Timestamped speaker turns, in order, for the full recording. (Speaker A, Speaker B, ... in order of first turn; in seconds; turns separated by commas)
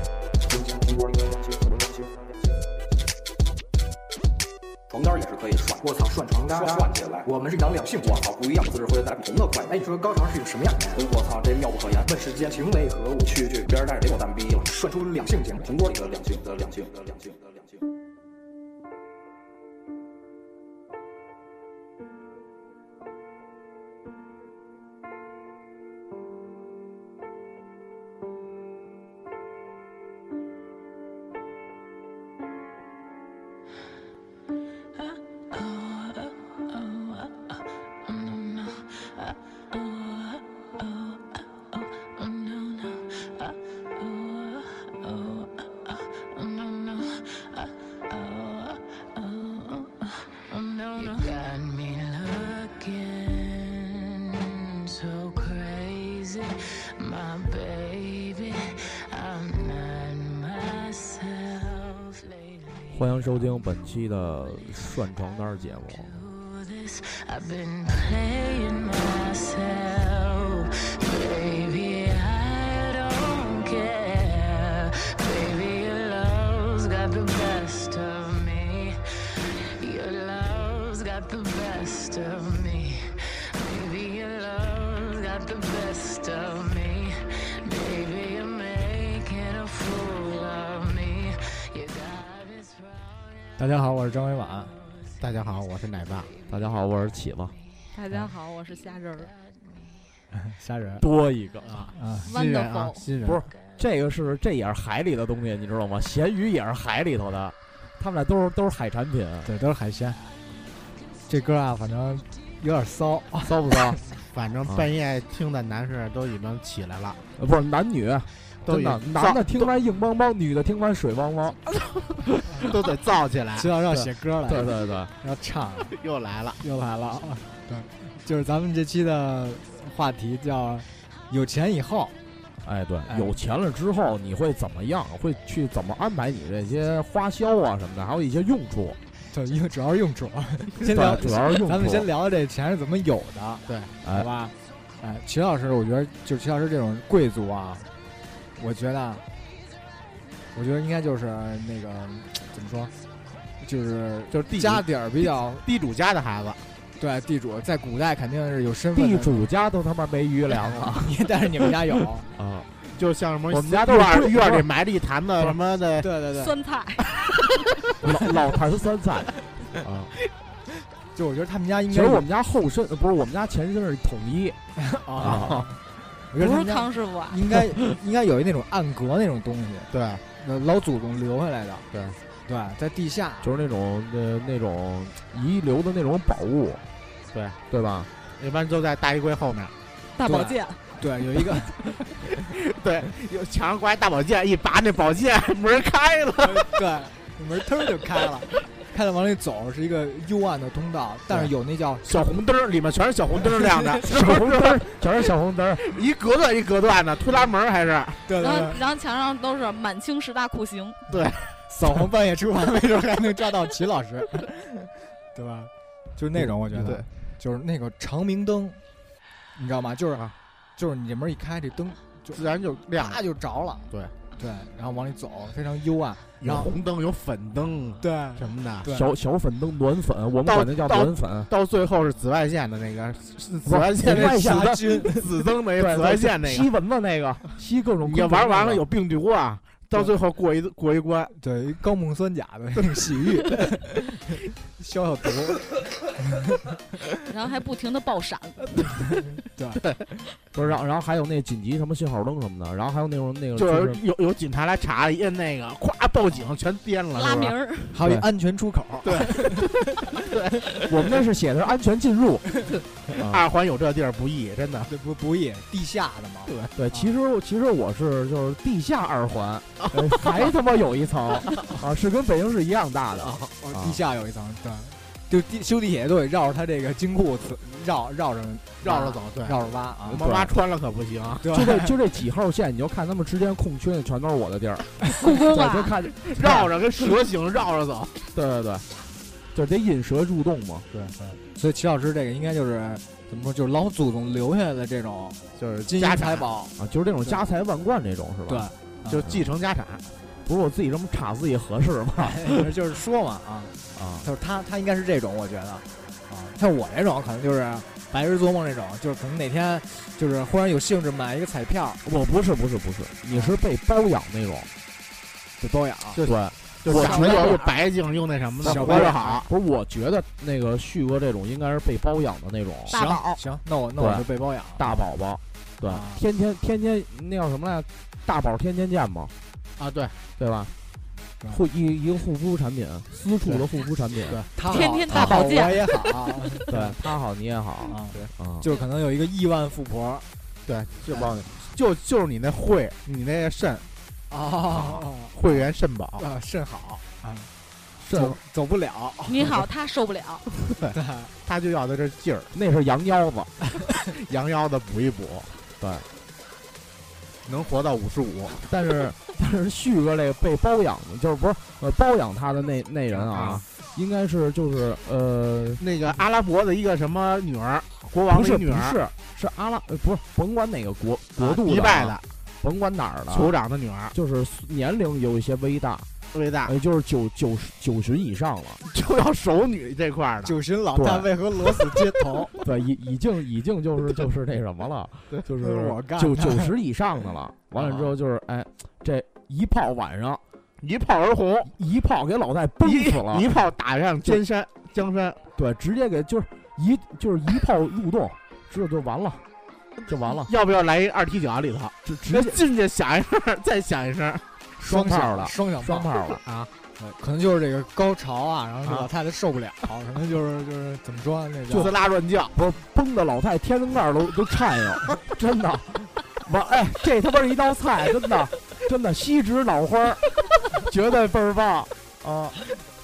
Speaker A: 0.5-1.1, Speaker B: 0.8-2.2, Speaker B: 4.9-5.9, Speaker A: 5.8-8.2, Speaker B: 6.5-7.3, Speaker B: 8.0-9.9, Speaker A: 9.7-11.0, Speaker B: 10.9-12.1, Speaker A: 12.1-13.3, Speaker B: 13.2-14.7, Speaker A: 14.6-15.7, Speaker B: 15.5-17.8, Speaker C: 42.2-43.0, Speaker C: 44.4-45.5, Speaker C: 46.4-47.4, Speaker C: 48.1-49.9, Speaker C: 50.5-62.3, Speaker D: 62.9-66.2, Speaker C: 66.5-92.3, Speaker E: 93.6-94.7, Speaker F: 95.2-96.3, Speaker D: 96.5-97.5, Speaker G: 97.9-99.3, Speaker E: 100.3-101.0, Speaker D: 101.0-101.9, Speaker F: 101.6-103.4, Speaker E: 101.9-102.3, Speaker G: 102.2-103.0, Speaker D: 103.2-109.5, Speaker E: 109.4-110.2, Speaker E: 111.3-113.8, Speaker D: 113.4-114.0, Speaker F: 114.3-117.2, Speaker D: 117.4-121.6, Speaker F: 118.7-119.7, Speaker F: 122.6-123.7, Speaker E: 123.6-125.9, Speaker D: 123.9-125.1, Speaker F: 125.9-126.6, Speaker E: 126.6-132.1, Speaker D: 132.6-139.0, Speaker E: 133.1-133.3, Speaker E: 139.3-147.9, Speaker D: 140.9-142.1, Speaker F: 143.7-143.9, Speaker D: 144.0-144.3, Speaker E: 148.6-149.2, Speaker E: 150.5-152.9, Speaker E: 153.6-155.6, Speaker F: 154.3-156.6, Speaker E: 157.0-159.4, Speaker D: 158.9-161.3, Speaker E: 160.6-162.3, Speaker D: 162.3-162.7, Speaker F: 162.9-166.1, Speaker D: 163.5-164.7, Speaker E: 166.0-166.5, Speaker G: 166.4-167.1, Speaker D: 168.0-170.1, Speaker E: 171.1-172.2, Speaker D: 171.9-174.6, Speaker E: 174.8-175.5, Speaker F: 175.1-175.7, Speaker D: 175.2-175.7, Speaker E: 176.3-181.8, Speaker G: 176.4-177.4, Speaker F: 179.9-180.2, Speaker F: 181.9-182.2, Speaker E: 182.5-183.5, Speaker D: 183.4-186.8, Speaker F: 187.3-187.6, Speaker D: 187.7-188.1, Speaker F: 188.4-189.7, Speaker G: 190.2-190.8, Speaker E: 190.2-191.8, Speaker F: 192.3-196.7, Speaker E: 196.4-202.1, Speaker F: 202.0-204.9, Speaker E: 203.6-203.9, Speaker D: 204.1-206.0, Speaker F: 205.8-208.2, Speaker E: 208.2-208.8, Speaker G: 208.4-211.0, Speaker F: 211.1-211.5, Speaker E: 211.7-218.8, Speaker F: 216.7-217.1, Speaker E: 219.5-220.2, Speaker E: 220.8-226.7, Speaker F: 222.3-223.2, Speaker F: 226.4-228.9, Speaker E: 228.0-229.1, Speaker D: 228.9-231.5, Speaker F: 230.4-236.7, Speaker D: 233.6-235.0, Speaker E: 234.0-235.3, Speaker D: 235.8-238.8, Speaker F: 238.0-241.3, Speaker E: 241.3-245.8, Speaker G: 247.2-248.9, Speaker E: 249.5-249.8, Speaker D: 250.5-254.0, Speaker F: 253.5-257.5, Speaker G: 257.1-257.9, Speaker E: 257.9-259.7, Speaker F: 259.0-259.6, Speaker F: 260.2-260.7, Speaker D: 260.9-262.6, Speaker F: 263.1-264.9, Speaker D: 263.2-263.4, Speaker E: 264.9-267.1, Speaker F: 266.5-266.7, Speaker D: 266.8-274.0, Speaker F: 273.2-273.5, Speaker E: 273.6-280.2, Speaker F: 278.8-279.6, Speaker D: 280.1-280.5, Speaker F: 280.1-281.5, Speaker E: 281.4-281.9, Speaker D: 281.5-286.7, Speaker G: 285.1-285.9, Speaker F: 286.3-288.2, Speaker D: 288.3-288.9, Speaker D: 289.5-290.9, Speaker E: 291.2-296.7, Speaker F: 295.6-296.5, Speaker D: 296.8-298.7, Speaker E: 298.5-299.2, Speaker F: 299.1-300.1, Speaker D: 300.4-302.5, Speaker E: 302.2-312.0, Speaker D: 303.9-304.3, Speaker D: 312.0-314.7, Speaker E: 313.3-313.6, Speaker E: 315.6-316.2, Speaker F: 316.2-319.5, Speaker D: 316.2-317.6, Speaker G: 316.9-317.8, Speaker D: 318.6-322.9, Speaker E: 318.6-319.4, Speaker G: 322.9-323.4, Speaker E: 322.9-325.0, Speaker D: 324.0-324.2, Speaker D: 324.8-329.3, Speaker E: 325.8-326.2, Speaker F: 329.8-330.1, Speaker D: 330.4-330.7, Speaker D: 331.5-334.4, Speaker E: 334.5-336.9, Speaker G: 334.6-336.6, Speaker D: 335.1-335.6, Speaker D: 336.7-338.7, Speaker E: 337.9-340.2, Speaker F: 340.6-343.9, Speaker E: 341.1-341.4, Speaker E: 344.3-347.5, Speaker F: 345.3-346.2, Speaker D: 348.0-348.4, Speaker E: 348.1-349.4, Speaker G: 349.3-350.5, Speaker E: 350.9-351.3, Speaker F: 351.4-352.5, Speaker D: 352.5-353.5, Speaker F: 354.1-355.5, Speaker D: 355.8-356.1, Speaker F: 357.4-358.6, Speaker D: 358.6-365.8, Speaker F: 363.1-363.6, Speaker F: 365.8-369.0, Speaker D: 368.3-373.5, Speaker F: 371.4-372.2, Speaker F: 373.3-374.1, Speaker D: 374.1-376.1, Speaker F: 376.3-376.7, Speaker D: 376.6-378.8, Speaker F: 378.8-380.5, Speaker E: 380.4-382.5, Speaker D: 380.9-381.3, Speaker D: 382.6-390.4, Speaker E: 385.6-386.7, Speaker F: 390.8-391.7, Speaker D: 391.6-393.6, Speaker F: 392.8-395.4, Speaker D: 395.6-399.4, Speaker D: 400.1-400.5, Speaker F: 400.5-404.4, Speaker D: 402.0-402.6, Speaker D: 404.8-406.4, Speaker E: 404.8-406.1, Speaker F: 406.4-406.7, Speaker E: 407.0-411.9, Speaker F: 411.7-412.5, Speaker D: 412.5-422.7